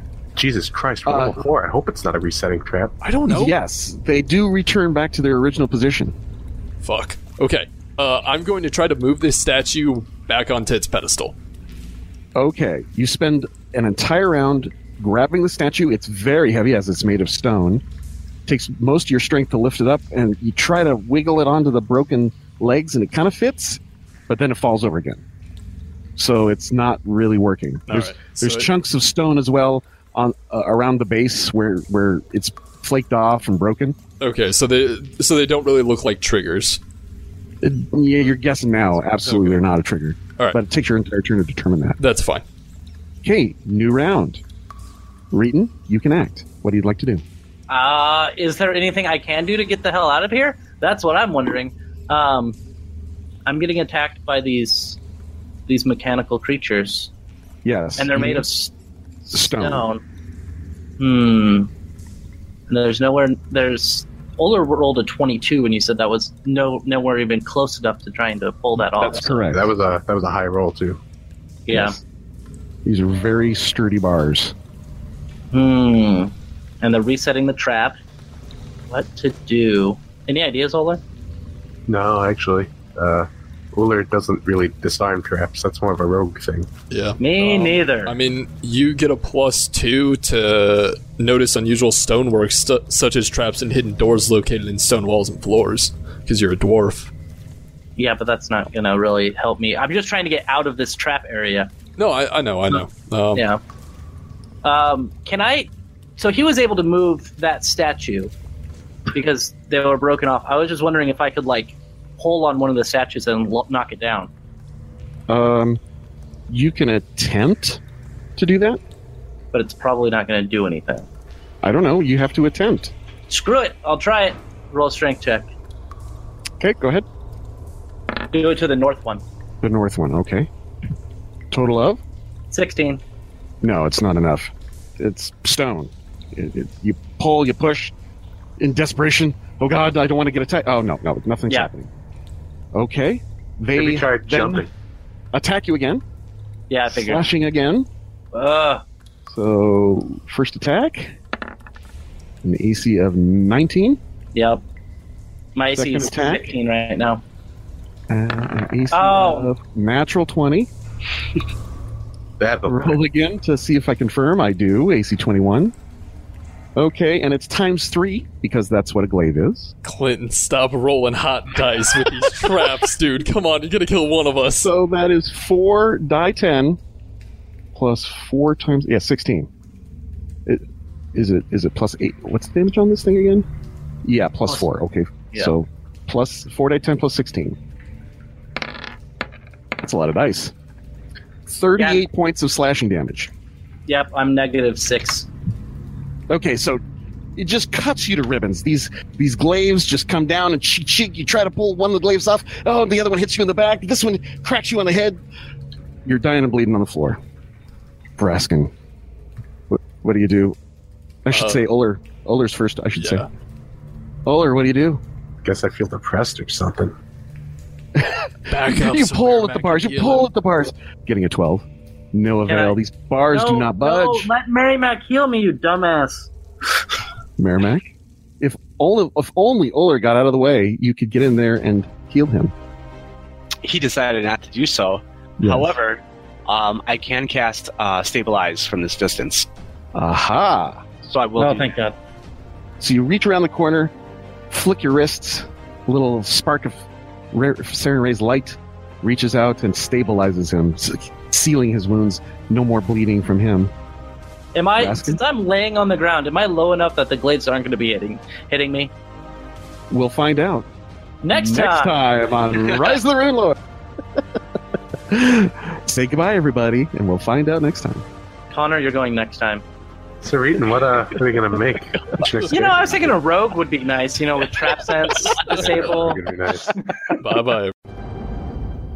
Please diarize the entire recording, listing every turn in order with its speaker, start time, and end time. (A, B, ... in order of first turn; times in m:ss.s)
0:00.4-0:03.0 A
0:01.1-0:01.5 B
0:03.0-0:06.2 B
0:03.2-0:03.5 C
0:06.8-0:11.4 C
0:12.4-0:17.8 B
0:18.5-0:25.2 B
0:26.2-0:34.0 B
0:27.9-0:28.7 C
0:34.2-0:36.8 C
0:37.6-0:42.0 B
0:39.0-0:39.6 C
0:42.0-0:42.4 C
0:43.2-0:44.4 B
0:45.3-0:47.2 B
0:47.7-0:52.6 D
0:53.5-0:55.0 D
0:55.7-0:57.1 D
0:57.6-0:58.5 B
0:58.0-0:58.7 D
0:59.2-0:59.9 B
0:59.5-1:00.0 D
1:01.0-1:01.7 D
1:02.7-1:09.4 D
1:08.8-1:09.7 B
1:09.5-1:11.0 A
1:11.7-1:12.0 D
1:11.7-1:12.0 B
1:12.8-1:14.5 B
1:15.5-1:18.0 D
1:18.9-1:21.0 D
1:21.9-1:26.7 A
1:26.9-1:37.1 C
1:27.2-1:28.2 D
1:38.0-1:41.7 D
1:42.0-1:43.4 C
1:43.4-1:43.6 D
1:44.6-1:48.3 D
1:49.1-1:54.3 D
1:55.3-1:55.8 B
1:56.5-1:57.8 B
1:58.4-1:58.8 B
1:59.5-2:01.1 D
2:01.6-2:02.9 B
2:03.3-2:05.5 D
2:06.6-2:07.1 B
2:08.3-2:09.2 D
2:09.6-2:10.5 B
2:11.5-2:12.0 B
2:12.5-2:13.0 D
2:13.6-2:17.9 B
2:18.6-2:21.9 B
2:22.7-2:24.7 B
2:23.8-2:24.7 A
2:25.3-2:26.0 B
2:26.7-2:27.2 D
2:26.9-2:27.9 B
2:28.3-2:28.8 D
2:29.3-2:31.2 B
2:32.4-2:34.0 B
2:34.3-2:34.6 D
2:35.6-2:37.2 D
2:35.7-2:36.4 B
2:38.1-2:40.7 B
2:38.9-2:39.5 D
2:42.4-2:43.0 A
2:42.7-2:45.7 B
2:46.8-2:49.7 B
2:49.8-2:54.7 C
2:54.6-2:56.8 B
2:57.7-2:59.5 B
3:00.5-3:03.5 B
3:04.0-3:07.6 B
3:09.8-3:10.5 B
3:11.5-3:13.3 B
3:11.8-3:12.0 D
3:13.9-3:15.3 D
3:16.3-3:16.8 B
3:17.4-3:25.2 B
3:26.0-3:27.2 B
3:28.2-3:28.7 B
3:29.7-3:30.6 B
3:31.2-3:33.2 B
3:31.3-3:31.6 C
3:33.0-3:33.3 C
3:34.2-3:35.0 B
3:35.4-3:36.9 A
3:38.0-3:44.3 B
3:38.5-3:40.3 C
3:42.5-3:42.8 D
3:43.3-3:46.3 D
3:47.4-3:47.8 B
3:48.4-3:52.5 B
3:53.6-3:59.5 E
3:55.4-3:55.7 B
4:00.0-4:00.8 B
4:00.9-4:01.7 E
4:01.4-4:02.0 D
4:02.8-4:03.9 B
4:04.5-4:13.7 B
4:14.6-4:18.9 D
4:14.8-4:15.2 B
4:19.9-4:20.7 B
4:21.2-4:22.0 D
4:21.3-4:23.6 B
4:25.1-4:28.0 B
4:28.5-4:29.6 D
4:30.2-4:33.2 A
4:32.5-4:36.2 D
4:35.4-4:36.7 A
4:37.2-4:37.7 C